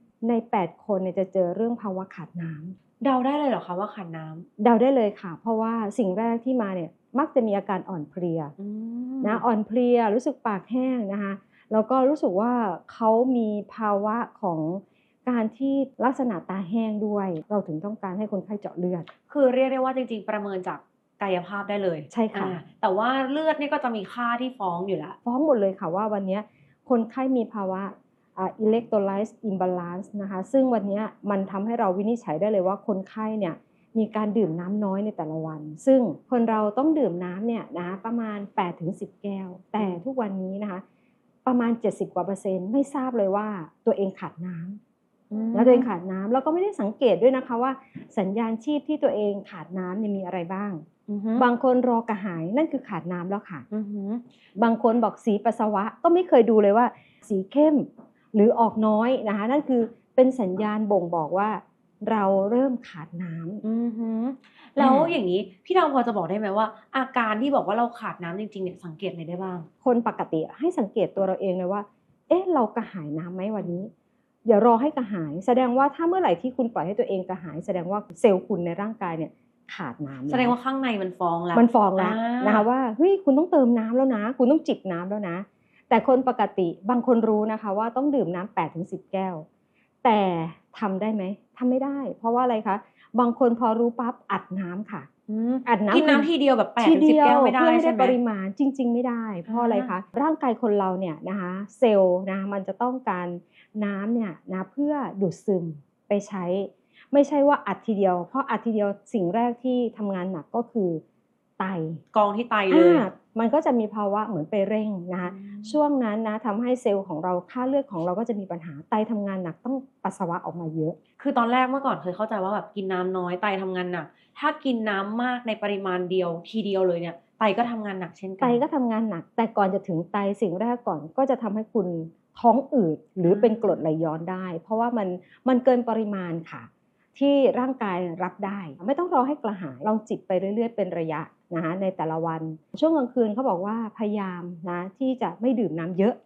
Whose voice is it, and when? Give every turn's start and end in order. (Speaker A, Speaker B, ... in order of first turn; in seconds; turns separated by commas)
Speaker A: 0.2-2.8, Speaker B: 3.0-4.5, Speaker A: 4.6-8.5, Speaker B: 8.6-9.4, Speaker A: 9.2-19.1, Speaker B: 19.3-25.2, Speaker A: 22.1-22.6, Speaker A: 25.2-40.8, Speaker A: 41.4-44.8, Speaker B: 45.3-45.9, Speaker A: 45.5-50.8, Speaker B: 51.1-51.5, Speaker A: 51.4-53.6, Speaker B: 53.7-54.2, Speaker A: 54.5-63.6, Speaker B: 63.6-69.7, Speaker A: 64.8-65.2, Speaker A: 69.8-73.9, Speaker A: 74.5-80.5, Speaker B: 80.3-82.7, Speaker A: 81.5-89.4, Speaker A: 90.0-95.1, Speaker B: 95.3-98.2, Speaker A: 95.7-111.0, Speaker B: 99.5-99.9, Speaker A: 111.6-112.0, Speaker B: 112.1-113.1, Speaker A: 112.7-121.0, Speaker B: 115.2-115.8, Speaker B: 121.2-128.6, Speaker A: 128.4-146.2, Speaker B: 133.3-133.8